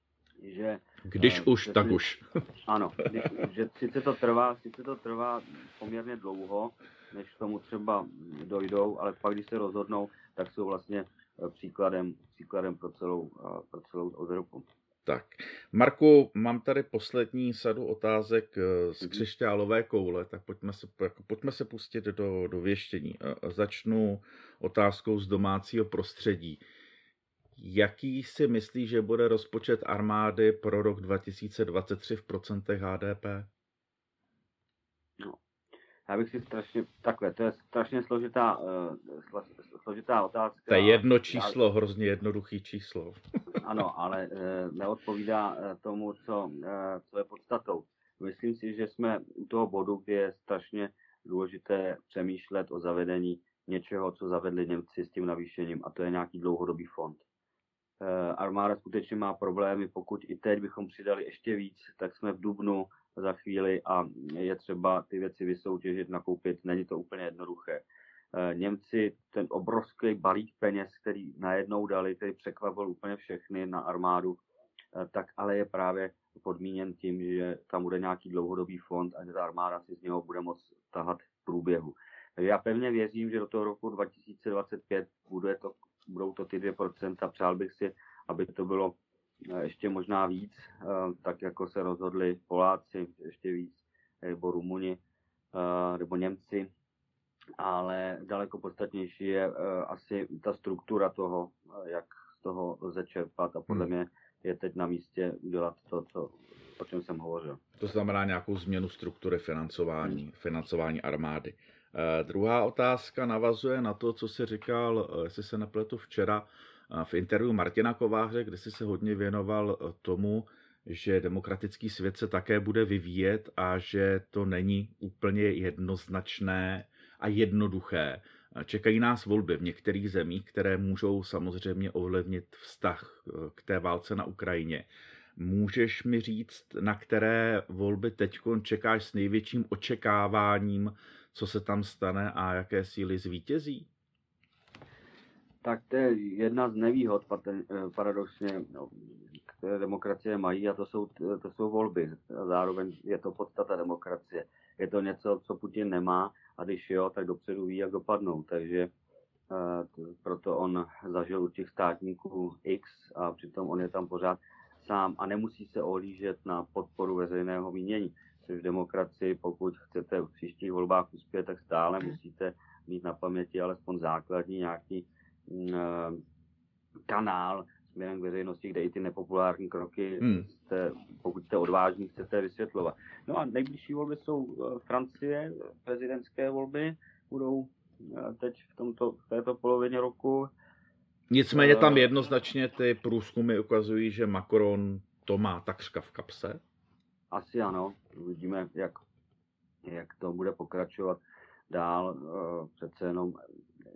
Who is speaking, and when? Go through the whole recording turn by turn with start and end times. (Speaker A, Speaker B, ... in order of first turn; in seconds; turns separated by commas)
Speaker A: 0.4-2.0, Speaker B: 1.1-2.2, Speaker A: 2.6-14.7, Speaker B: 15.1-26.6, Speaker B: 27.6-33.5, Speaker A: 36.1-41.5, Speaker B: 40.7-43.2, Speaker A: 43.5-57.2, Speaker A: 58.0-74.4, Speaker A: 74.9-89.0, Speaker A: 89.5-95.0, Speaker A: 95.5-96.7, Speaker A: 97.6-107.6, Speaker B: 107.8-143.9, Speaker A: 145.6-158.9, Speaker A: 159.5-176.2, Speaker A: 177.1-190.5, Speaker B: 180.2-180.4, Speaker B: 191.3-196.6, Speaker A: 191.5-192.1, Speaker A: 197.3-199.0, Speaker A: 199.8-201.2, Speaker A: 201.7-203.4